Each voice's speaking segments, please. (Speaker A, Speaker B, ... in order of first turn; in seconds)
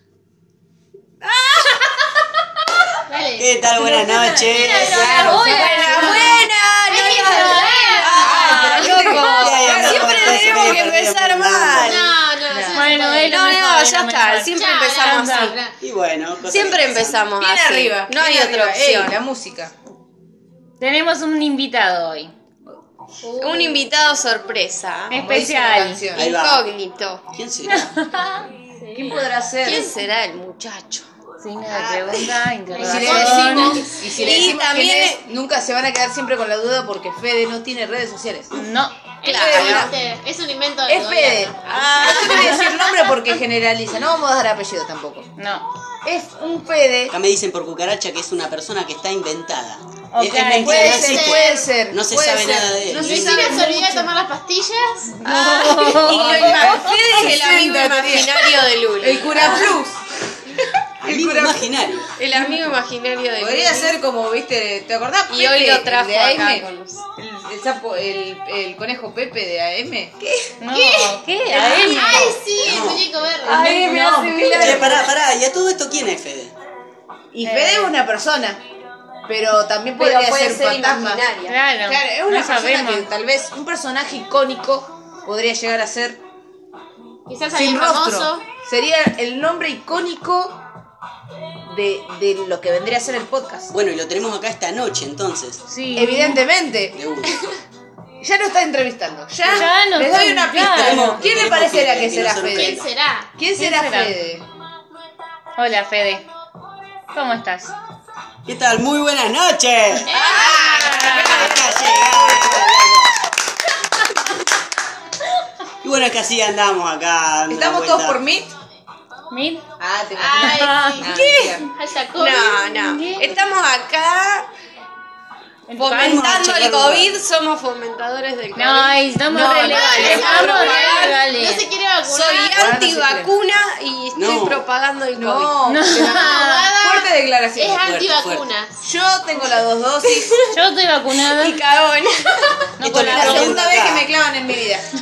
Speaker A: 1.2-1.8, 5.6-12.2, 13.2-15.6, 16.4-19.2, 23.4-25.2, 26.1-27.2, 29.6-31.1, 31.7-35.2, 39.3-39.9, 41.7-42.6, 55.2-59.8, 62.2-64.0, 65.3-67.0, 70.2-70.5, 71.5-72.4, 73.4-75.1, 80.0-81.6, 122.2-124.5, 125.8-131.2, 132.1-135.6, 141.2-142.7
Speaker B: 3.1-3.5, 4.5-6.2, 6.9-8.9, 11.8-13.5, 14.6-15.8, 23.2-23.9, 28.8-29.8, 32.7-34.6, 39.2-42.7, 50.7-51.7, 52.9-55.2, 70.7-73.6, 87.3-88.4, 102.5-103.3, 110.1-110.7, 120.2-122.7, 129.4-132.7, 135.9-138.8
Speaker C: 3.4-5.2, 9.4-12.1, 15.8-17.2, 26.1-26.7, 27.3-27.9, 47.1-53.6, 56.1-56.7, 61.0-62.1, 72.6-73.2, 74.6-76.5, 93.7-95.7, 96.9-97.4, 100.7-102.9, 108.5-110.1, 111.2-113.2, 115.8-118.2, 125.9-127.2, 134.1-134.6, 137.8-138.5, 142.8-144.1
Speaker D: 3.7-6.5, 12.7-15.6, 20.8-22.3, 25.1-26.1, 27.7-28.5, 31.4-33.9, 38.5-39.1, 45.4-45.6, 50.1-51.1, 55.1-56.8, 70.6-72.4, 77.4-78.0, 81.5-83.1, 95.7-96.4, 99.5-101.2, 103.6-104.2, 105.6-106.3, 107.1-107.8, 110.4-111.5, 119.3-119.6, 120.3-121.3, 122.7-123.4, 125.7-126.5, 128.6-131.7, 135.7-136.7, 140.5-141.6, 142.8-143.6
Speaker E: 4.8-6.4, 7.0-10.6, 12.5-13.0, 17.4-19.7, 25.1-26.2, 28.9-29.9, 32.7-38.7, 39.3-39.9, 40.9-45.3, 46.0-47.1, 50.6-54.1, 56.2-58.3, 59.0-61.7, 63.4-66.7, 67.2-70.2, 73.4-75.1, 77.3-78.6, 79.3-81.3, 81.8-86.2, 87.5-90.6, 91.6-93.7, 95.9-97.0, 98.2-102.8, 103.4-104.5, 110.1-112.7, 117.5-118.5, 119.8-121.6, 129.3-129.8, 132.5-133.3, 135.2-137.8, 138.8-140.3, 143.1-144.9